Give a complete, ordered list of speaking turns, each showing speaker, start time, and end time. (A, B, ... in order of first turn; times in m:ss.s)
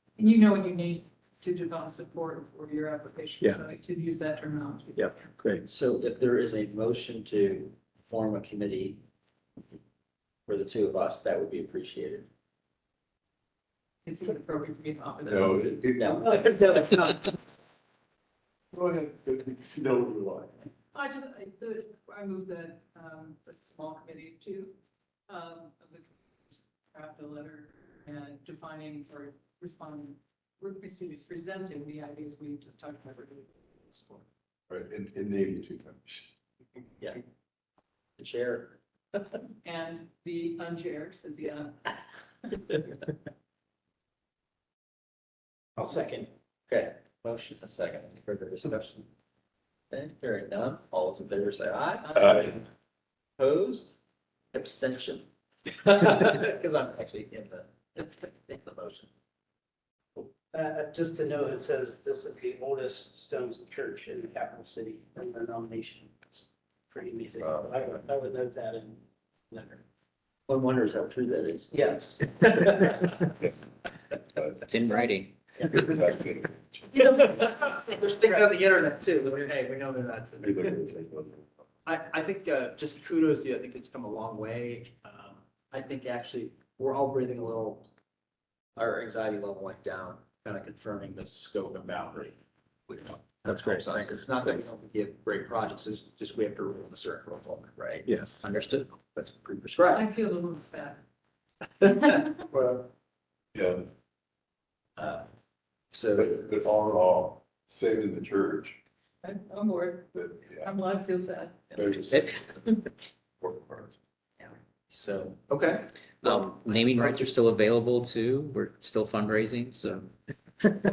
0:00.2-0:05.2 A
0:05.0-0:05.7 B
0:05.6-0:09.0 C
0:10.5-0:12.3 C
0:14.0-0:15.8 A
0:15.3-0:16.7 D
0:16.0-0:17.4 C
0:18.7-0:20.6 D
0:20.9-0:24.8 A
0:25.3-0:34.2 A
0:34.7-0:36.3 D
0:38.2-0:38.8 C
0:39.6-0:41.9 A
0:45.8-0:46.3 E
0:46.7-0:49.1 C
0:49.9-0:52.6 C
0:52.0-0:52.5 A
0:53.4-0:54.0 C
0:54.5-0:59.1 C
1:00.2-1:09.8 E
1:10.5-1:11.7 C
1:11.7-1:13.3 E
1:14.6-1:15.3 F
1:15.6-1:17.1 D
1:17.0-1:20.8 C
1:20.4-1:21.4 D
1:21.8-1:27.9 C
1:28.8-1:32.4 C
1:32.9-1:38.1 C
1:33.5-1:34.6 B
1:38.1-1:38.4 B
1:38.4-1:38.9 F
1:39.1-1:40.1 C
1:39.9-1:41.0 A
1:41.8-1:42.2 C
1:43.5-1:43.9 D
1:45.0-1:45.3 C
1:45.9-1:46.5 C
1:46.2-1:48.8 D
1:49.2-1:51.6 A
1:50.1-1:50.8 D
1:51.7-1:52.7 D
1:53.4-1:54.0 D
1:54.4-1:56.5 C
1:56.2-2:00.1 F